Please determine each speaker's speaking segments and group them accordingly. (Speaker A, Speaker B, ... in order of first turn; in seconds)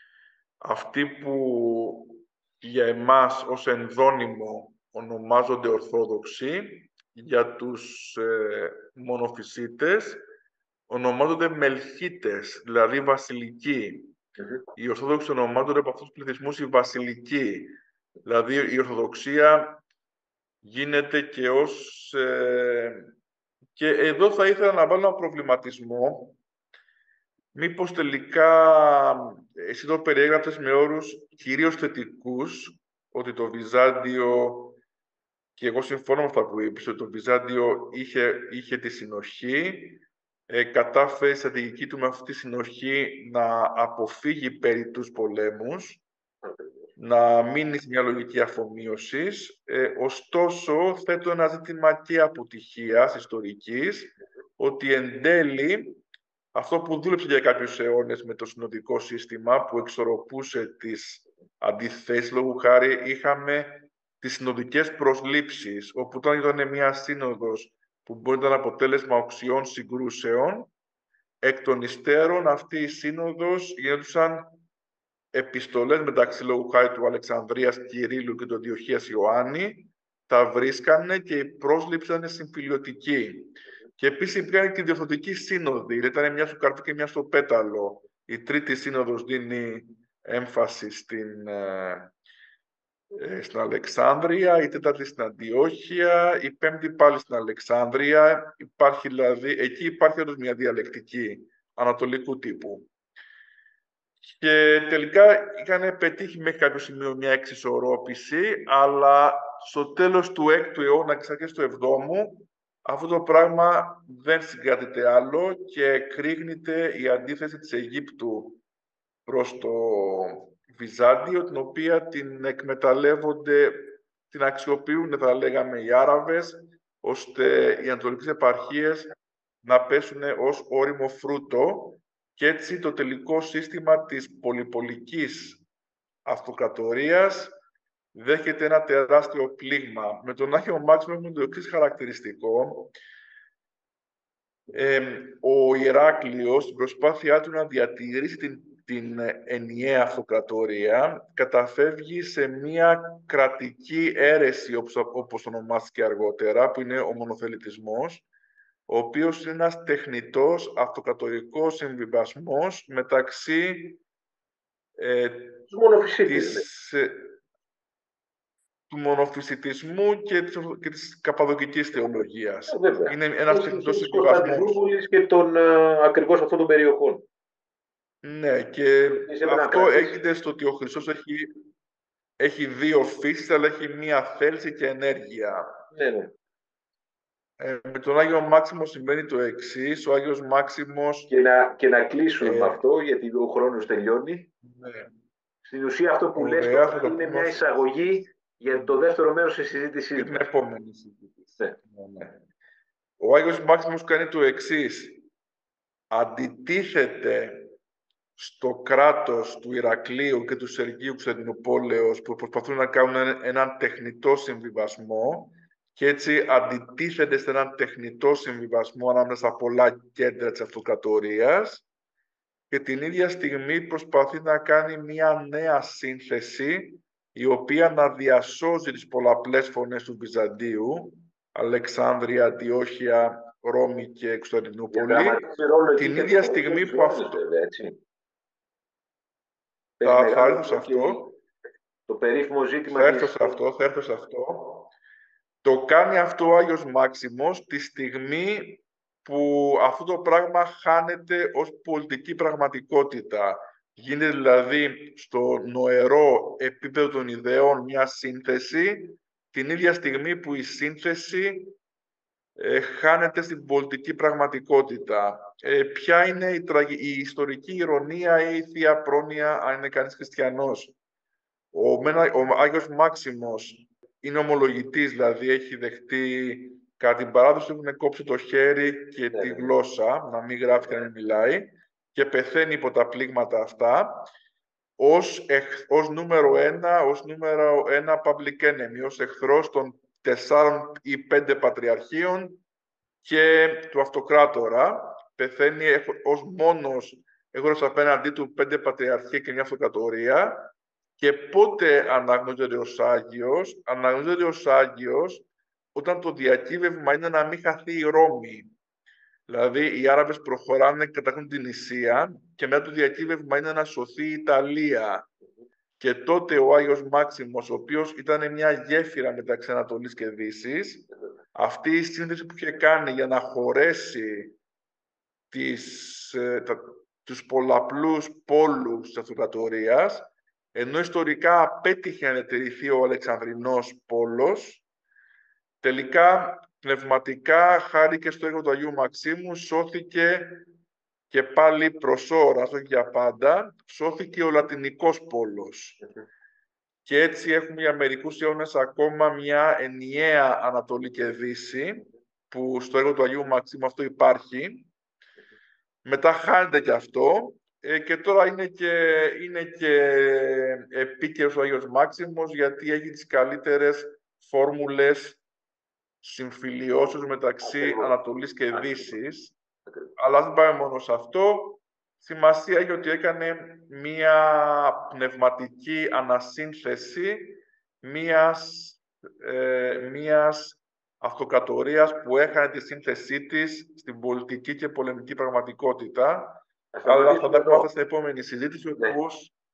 Speaker A: 0.6-10.2, 10.9-14.1, 14.8-19.8, 20.6-23.1, 23.8-26.4, 27.5-34.8, 35.6-46.0, 47.0-56.0, 56.5-70.7, 71.4-74.5, 75.3-92.1, 93.1-102.9, 104.2-118.6, 119.3-135.7, 136.2-137.5, 138.1-142.9, 144.7-158.3, 158.9-164.0, 165.0-165.7, 166.2-167.4, 168.9-174.8, 178.2-181.5, 182.4-185.7, 187.6-191.3, 192.4-192.8, 194.6-195.1, 196.4-197.6, 198.7-199.0, 200.2-202.4, 203.2-205.2, 206.1-207.8, 208.4-221.9, 222.7-235.4, 236.0-237.4, 240.0-241.2, 242.9-244.9, 245.6-261.7, 262.6-270.9, 271.7-284.3, 285.0-292.6, 293.2-308.7, 309.5-315.3, 316.0-324.6, 325.5-334.8, 335.8-340.7, 341.3-346.0, 347.1-354.9, 356.1-365.4, 366.2-369.6, 370.2-389.5
Speaker B: 46.4-46.8, 165.7-166.7, 172.7-177.2, 179.2-180.2, 185.9-186.3, 191.3-194.5, 195.7-200.5, 234.9-238.0, 240.0-241.3, 242.1-243.6, 279.3-279.7, 367.6-368.2, 368.8-369.0, 386.9-387.9